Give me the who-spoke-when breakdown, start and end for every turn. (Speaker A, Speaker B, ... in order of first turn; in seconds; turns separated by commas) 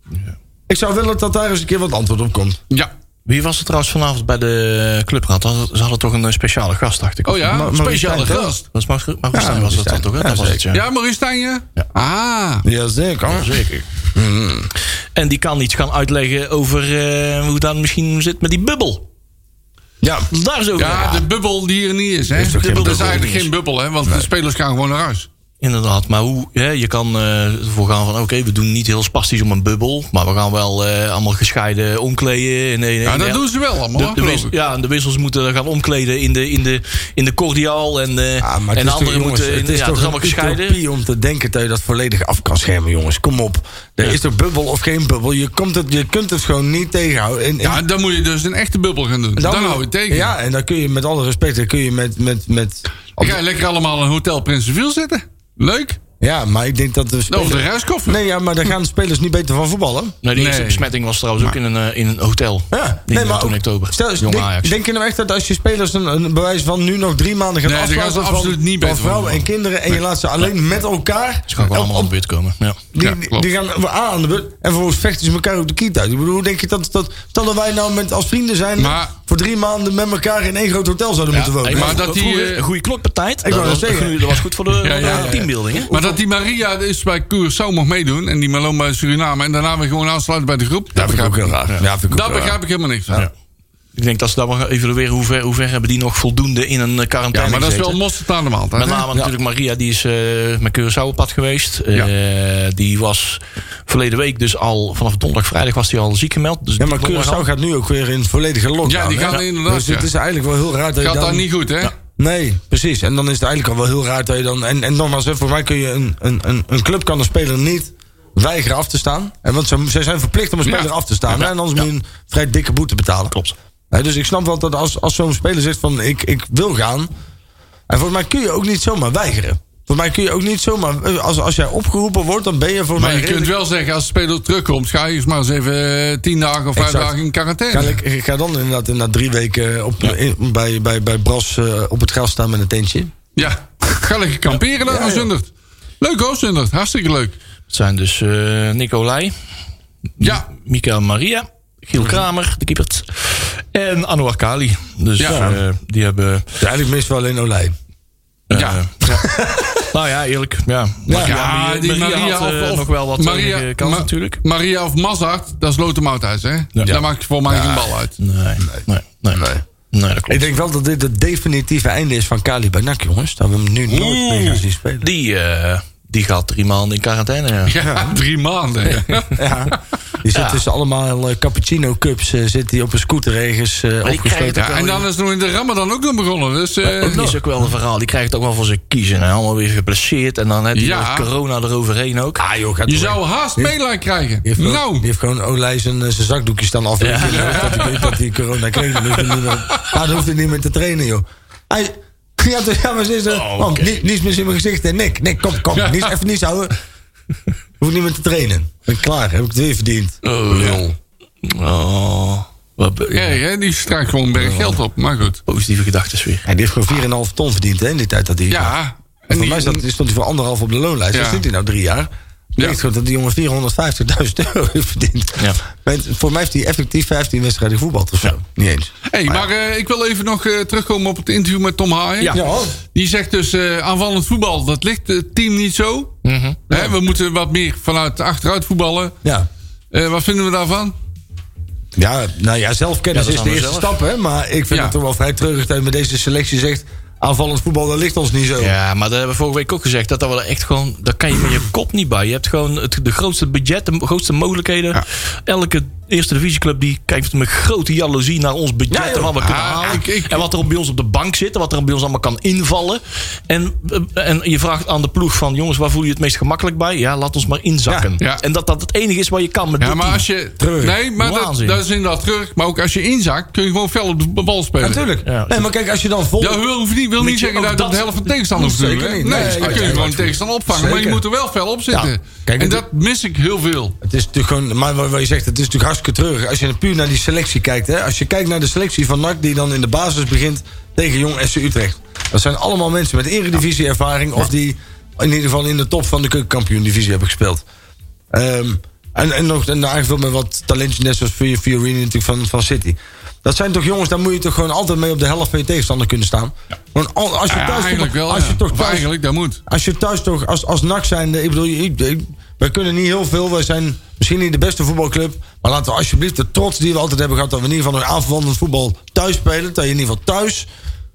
Speaker A: 0.7-2.6, Speaker B: 3.3-7.5, Speaker C: 7.2-8.7, Speaker A: 7.4-8.5, Speaker B: 8.7-10.8, Speaker A: 9.3-10.6, Speaker C: 10.7-12.7, Speaker A: 12.6-13.5, Speaker B: 13.3-13.9, Speaker A: 14.1-14.7, Speaker B: 15.1-19.1, Speaker A: 20.0-20.3, Speaker B: 20.3-21.2, Speaker C: 20.8-25.3, Speaker A: 22.4-23.3, Speaker B: 22.4-23.5, Speaker B: 25.6-40.8, Speaker C: 33.0-34.5, Speaker A: 38.4-47.8, Speaker C: 47.6-50.3, Speaker A: 49.4-53.4, Speaker C: 53.2-56.0, Speaker A: 56.2-60.1, Speaker C: 57.3-58.2, Speaker B: 60.2-64.8, Speaker C: 60.3-60.9, Speaker A: 62.7-72.1, Speaker C: 67.6-69.5, Speaker B: 71.5-72.8, Speaker A: 72.9-82.0, Speaker C: 73.0-73.5, Speaker C: 78.8-79.1, Speaker B: 81.3-85.9, Speaker C: 81.7-82.6, Speaker A: 83.4-84.4, Speaker C: 84.8-93.2, Speaker A: 85.0-86.2, Speaker A: 90.9-92.6, Speaker B: 93.9-98.0, Speaker C: 97.3-99.0, Speaker B: 98.8-107.5, Speaker A: 106.8-111.5, Speaker C: 108.8-110.1, Speaker C: 111.0-111.9, Speaker A: 112.2-123.3, Speaker A: 123.9-127.1, Speaker A: 127.9-133.5, Speaker C: 132.9-138.0, Speaker A: 136.7-137.1, Speaker A: 137.7-143.3, Speaker C: 143.3-145.5, Speaker A: 144.8-145.3, Speaker C: 146.0-147.3, Speaker B: 147.7-149.3, Speaker B: 150.2-156.6, Speaker C: 150.2-150.4, Speaker C: 155.2-155.5, Speaker A: 155.2-155.6, Speaker A: 156.6-157.7, Speaker B: 158.5-159.2, Speaker C: 158.5-158.8, Speaker A: 159.1-159.8, Speaker B: 159.9-164.4, Speaker A: 161.1-161.3, Speaker C: 161.1-168.2, Speaker B: 166.7-167.0, Speaker A: 166.9-167.9, Speaker B: 168.2-170.5, Speaker A: 169.3-169.6, Speaker A: 170.3-175.1, Speaker C: 173.9-174.6, Speaker B: 175.0-177.8, Speaker C: 177.7-179.4, Speaker A: 177.8-178.2, Speaker B: 178.9-179.3, Speaker A: 179.3-184.7, Speaker B: 180.3-180.6, Speaker B: 184.0-185.1, Speaker C: 184.6-187.3, Speaker B: 186.8-192.4, Speaker C: 190.7-191.3, Speaker A: 192.4-193.7, Speaker C: 192.8-195.0, Speaker A: 194.4-206.7, Speaker B: 197.0-198.1, Speaker C: 197.2-198.1, Speaker B: 203.3-204.0, Speaker C: 205.7-206.1, Speaker A: 207.8-210.9, Speaker B: 210.2-210.8, Speaker B: 211.4-213.4, Speaker C: 213.1-215.4, Speaker A: 214.4-214.8, Speaker B: 215.4-216.5, Speaker A: 216.4-218.7, Speaker C: 218.5-219.8, Speaker A: 219.3-229.5, Speaker C: 221.1-221.4, Speaker C: 229.1-232.4, Speaker A: 232.3-232.7, Speaker C: 232.9-236.1, Speaker B: 236.2-236.6, Speaker C: 236.7-239.1, Speaker A: 236.7-236.9, Speaker C: 239.9-240.9, Speaker A: 241.9-248.7, Speaker B: 243.1-243.9, Speaker B: 248.6-270.2, Speaker A: 258.9-259.4, Speaker C: 259.4-260.5, Speaker C: 269.8-275.0, Speaker A: 270.6-271.0, Speaker B: 271.1-271.8, Speaker A: 274.8-276.6, Speaker B: 275.2-275.6, Speaker C: 276.4-283.9, Speaker B: 277.2-278.3, Speaker A: 278.5-281.2, Speaker B: 279.2-280.2, Speaker A: 281.9-282.8, Speaker A: 284.0-297.6, Speaker A: 298.3-309.1, Speaker C: 307.5-309.6, Speaker A: 309.7-320.7